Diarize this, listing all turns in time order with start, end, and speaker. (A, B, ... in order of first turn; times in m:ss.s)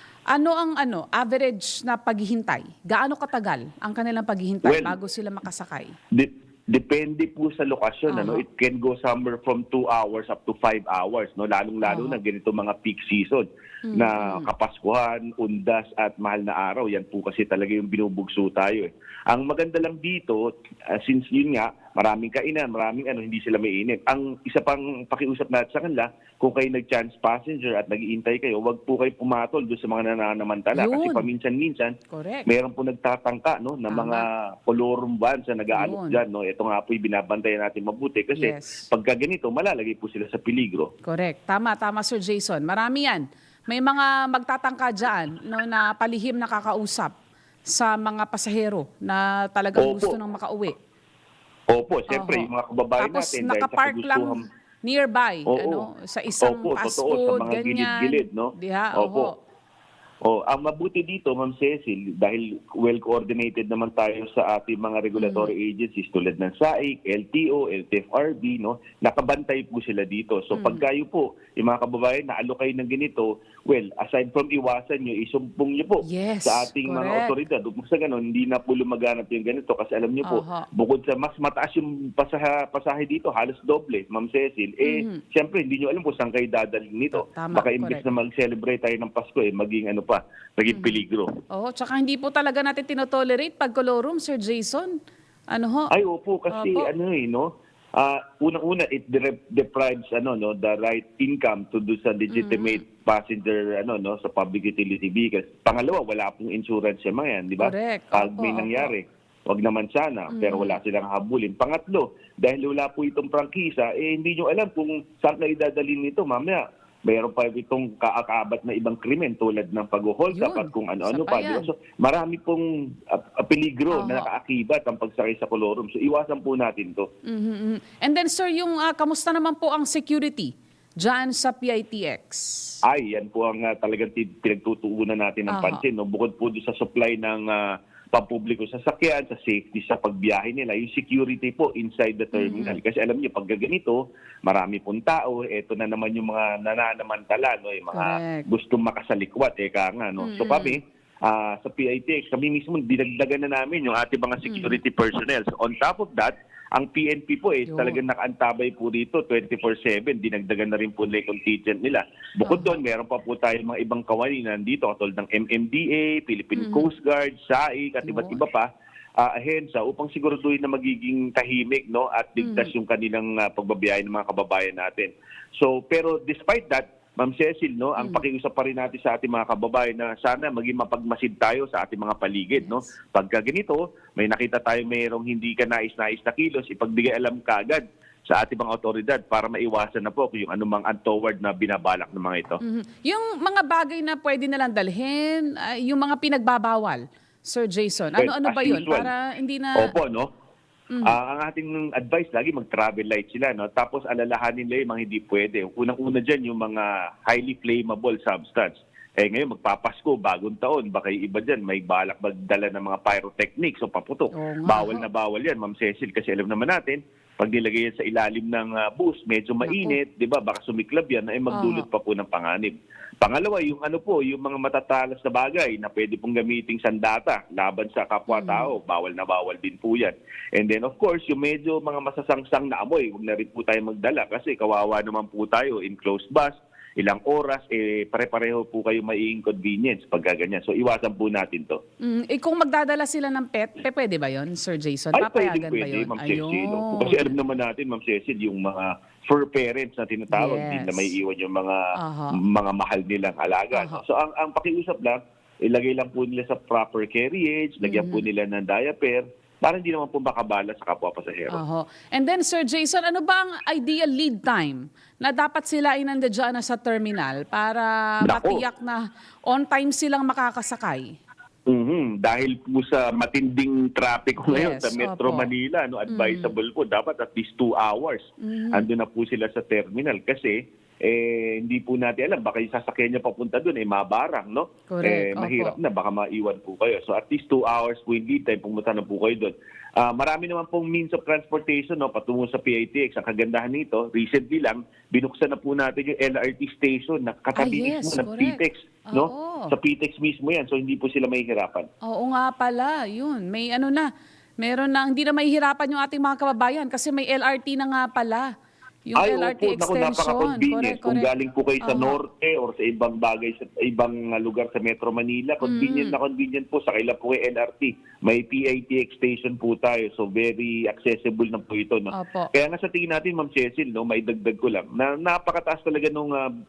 0:00.3-0:05.9 A
0:04.6-0:05.0 B
0:06.1-0:31.9 B
0:08.1-0:08.4 A
0:11.8-0:12.2 A
0:13.9-0:14.5 A
0:30.7-0:31.2 A
0:32.1-0:32.5 A
0:32.5-0:40.9 B
0:33.9-0:34.2 A
0:35.7-0:36.2 A
0:38.4-0:38.8 A
0:41.0-0:47.1 A
0:47.7-0:50.8 A
0:49.8-0:50.2 B
0:51.7-0:54.4 B
0:52.1-0:59.3 A
0:55.5-0:55.9 B
0:56.4-0:59.3 B
1:00.2-1:31.3 B
1:05.2-1:05.5 A
1:10.5-1:10.8 A
1:16.0-1:17.3 A
1:20.3-1:20.7 A
1:24.8-1:25.2 A
1:27.1-1:28.2 A
1:30.7-1:31.0 A
1:31.5-1:35.0 A
1:35.5-1:35.9 A
1:35.9-2:07.1 B
1:36.5-1:36.9 A
1:42.3-1:42.8 A
1:47.6-1:48.9 A
1:50.3-1:50.8 A
2:00.3-2:01.7 A
2:03.9-2:04.3 A
2:07.3-2:12.8 A
2:12.9-2:48.7 B
2:15.5-2:15.8 A
2:22.3-2:22.8 A
2:27.9-2:28.5 A
2:30.2-2:30.8 A
2:34.4-2:34.8 A
2:37.7-2:38.0 A
2:42.4-2:42.8 A
2:46.6-2:46.9 A
2:48.0-2:48.4 A
2:49.2-3:12.6 B
2:52.4-2:52.7 A
3:12.6-3:19.9 A
3:18.2-3:19.1 B
3:19.8-3:20.3 B
3:20.9-3:21.2 A
3:21.0-4:01.8 B
3:34.3-3:35.1 A
3:39.6-3:40.0 A
3:41.5-3:41.8 A
3:48.3-3:48.7 A
4:02.0-4:07.3 A
4:05.1-4:11.8 B
4:10.3-4:11.1 A
4:12.0-4:12.4 A
4:12.3-4:21.6 B
4:13.7-4:14.0 A
4:17.8-4:18.2 A
4:21.5-4:31.1 A
4:28.2-4:28.6 B
4:31.7-5:01.9 B
4:34.4-4:35.5 A
4:36.1-4:36.5 A
4:38.4-4:38.9 A
4:44.9-4:45.8 A
4:57.5-4:58.6 A
4:59.1-4:59.7 A
5:02.0-5:04.1 A
5:04.6-5:08.5 A
5:09.1-5:11.3 A
5:09.2-5:26.5 B
5:11.8-5:12.2 A
5:15.6-5:16.2 A
5:22.1-5:22.5 A